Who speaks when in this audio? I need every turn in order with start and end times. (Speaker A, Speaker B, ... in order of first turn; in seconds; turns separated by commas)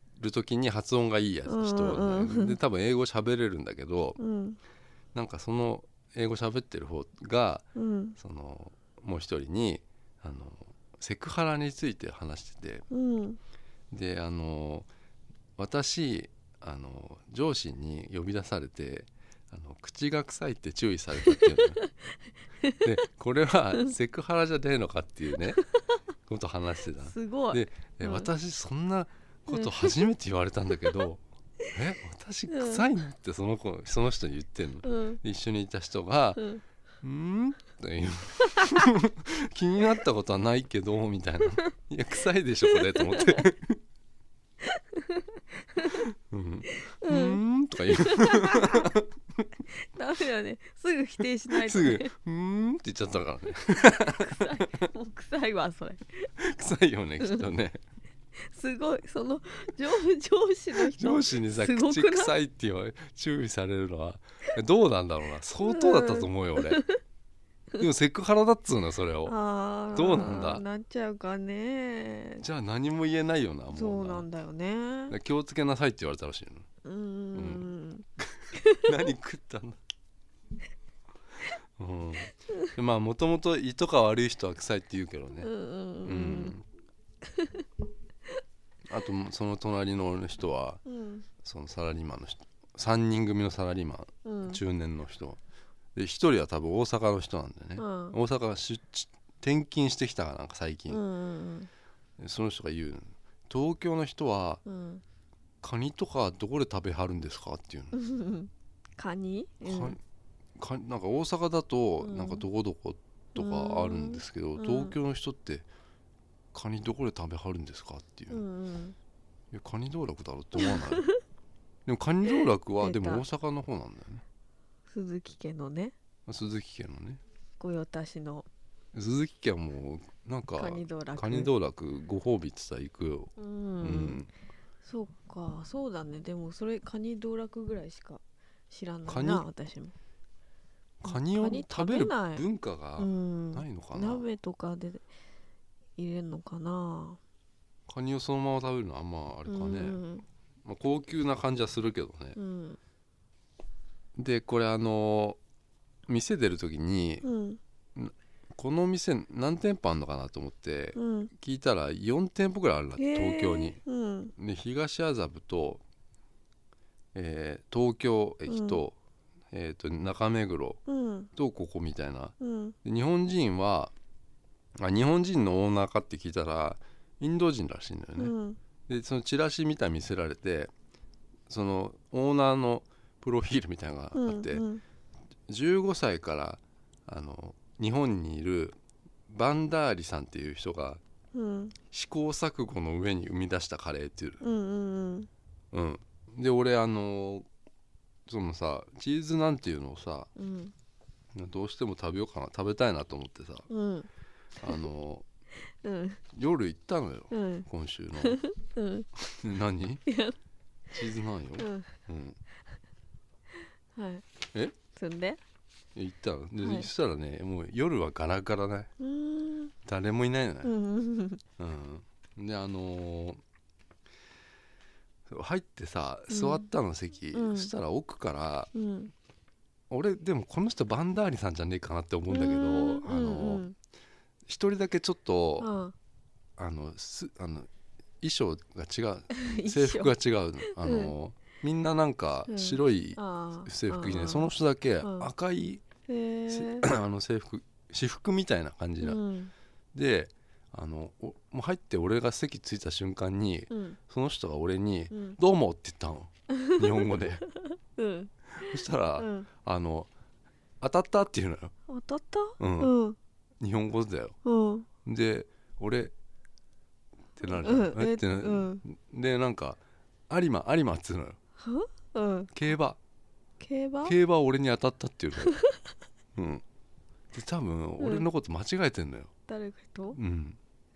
Speaker A: 0.2-4.2, Speaker B: 1.5-2.6, Speaker B: 4.2-4.6, Speaker A: 5.1-7.7, Speaker B: 7.7-8.2, Speaker A: 8.2-12.8, Speaker B: 12.9-13.4, Speaker A: 13.9-14.9, Speaker A: 15.6-21.8, Speaker B: 21.2-21.9, Speaker B: 22.6-22.9, Speaker A: 22.8-25.6, Speaker A: 26.3-36.5, Speaker B: 27.0-28.3, Speaker B: 29.5-30.1, Speaker B: 32.5-32.9, Speaker B: 34.8-35.2, Speaker B: 36.4-36.6, Speaker A: 37.0-43.8, Speaker B: 38.5-38.9, Speaker B: 42.6-43.5, Speaker B: 44.6-46.1, Speaker A: 45.9-49.1, Speaker B: 46.8-48.9, Speaker B: 49.7-52.1, Speaker A: 51.5-54.9, Speaker B: 53.7-56.3, Speaker A: 56.4-57.8, Speaker B: 57.2-57.5, Speaker B: 58.4-62.3, Speaker A: 60.8-66.8, Speaker B: 65.6-67.0, Speaker A: 67.8-69.3, Speaker B: 69.2-72.4, Speaker A: 69.9-70.6, Speaker A: 72.4-74.2, Speaker B: 73.7-75.1, Speaker A: 75.1-76.7, Speaker B: 76.8-79.0, Speaker A: 77.3-77.7, Speaker A: 78.2-79.8, Speaker A: 81.8-85.5, Speaker B: 85.4-86.5, Speaker A: 86.0-86.6, Speaker B: 87.2-87.6, Speaker A: 88.9-90.8, Speaker B: 90.8-91.3, Speaker A: 91.4-95.4, Speaker B: 94.2-94.6, Speaker A: 95.9-101.0, Speaker B: 97.8-98.2, Speaker B: 100.9-101.7, Speaker A: 102.2-104.6, Speaker B: 104.7-105.0, Speaker A: 105.6-108.0, Speaker B: 107.9-110.0, Speaker A: 109.6-110.0, Speaker A: 110.6-115.7, Speaker B: 112.0-112.4, Speaker B: 113.3-115.0, Speaker A: 116.5-118.4, Speaker B: 118.3-119.0, Speaker A: 119.5-121.1, Speaker B: 120.6-121.2, Speaker A: 121.8-124.2, Speaker B: 122.3-123.2, Speaker B: 124.9-125.9, Speaker A: 126.3-127.2, Speaker B: 127.6-128.5, Speaker A: 128.9-134.3, Speaker B: 130.6-131.5, Speaker B: 133.4-134.2, Speaker B: 134.8-139.9, Speaker A: 139.1-139.4, Speaker A: 141.0-144.2, Speaker B: 141.0-142.4, Speaker B: 143.0-145.1, Speaker B: 145.9-147.2, Speaker A: 147.9-150.0, Speaker B: 149.4-150.2, Speaker A: 150.6-152.4, Speaker B: 152.3-152.8, Speaker A: 154.2-155.4, Speaker A: 156.1-157.3, Speaker B: 157.2-157.6, Speaker A: 157.9-163.8, Speaker B: 160.9-161.3, Speaker B: 163.0-164.3, Speaker A: 164.3-165.8, Speaker A: 167.1-168.9, Speaker B: 168.5-168.8, Speaker A: 169.5-170.8, Speaker B: 170.9-171.3, Speaker A: 171.3-173.9, Speaker B: 172.4-172.8, Speaker A: 174.8-178.3, Speaker B: 178.2-178.6, Speaker A: 178.9-180.7, Speaker A: 181.5-184.7, Speaker B: 184.1-184.8, Speaker A: 185.5-188.8, Speaker A: 189.3-191.0, Speaker B: 191.3-191.8, Speaker A: 191.9-194.4, Speaker B: 194.4-195.3, Speaker A: 195.7-197.5, Speaker A: 198.3-200.3, Speaker B: 200.3-200.7, Speaker A: 201.3-203.7, Speaker B: 203.7-204.1, Speaker A: 204.6-205.2, Speaker B: 205.7-206.2, Speaker A: 206.3-208.4, Speaker B: 207.3-207.7, Speaker B: 208.2-209.1, Speaker A: 209.2-210.0, Speaker B: 210.1-210.3, Speaker A: 210.9-212.4, Speaker B: 211.6-211.9, Speaker B: 213.9-214.2, Speaker B: 214.9-215.4, Speaker A: 215.9-218.9, Speaker B: 216.6-216.9, Speaker B: 219.0-219.7, Speaker A: 219.8-220.7, Speaker B: 220.6-221.4, Speaker A: 221.6-223.4, Speaker A: 225.3-228.7, Speaker B: 226.3-226.7, Speaker B: 227.3-227.7, Speaker B: 228.7-229.1, Speaker A: 229.9-233.6, Speaker B: 232.3-233.8, Speaker A: 234.4-235.7, Speaker B: 235.6-235.9, Speaker A: 236.6-237.7, Speaker A: 238.2-245.8, Speaker B: 239.4-240.1, Speaker B: 240.6-241.1, Speaker B: 242.5-245.3, Speaker B: 246.1-246.9, Speaker A: 246.5-249.2, Speaker B: 249.0-249.5, Speaker A: 249.9-257.5, Speaker B: 253.7-254.0, Speaker B: 255.1-255.4, Speaker B: 256.5-259.5, Speaker A: 258.5-260.1, Speaker A: 260.8-261.7, Speaker B: 261.9-263.2, Speaker A: 262.6-262.9, Speaker A: 263.6-264.4, Speaker B: 264.4-264.9, Speaker A: 265.0-266.1, Speaker A: 267.4-271.4, Speaker B: 267.4-268.8, Speaker B: 271.6-272.5, Speaker A: 272.5-273.0, Speaker B: 273.6-274.1, Speaker A: 274.0-275.5, Speaker B: 275.4-275.8, Speaker A: 276.4-276.6, Speaker A: 277.3-279.3, Speaker B: 278.0-278.2, Speaker B: 279.5-280.2, Speaker A: 280.1-280.6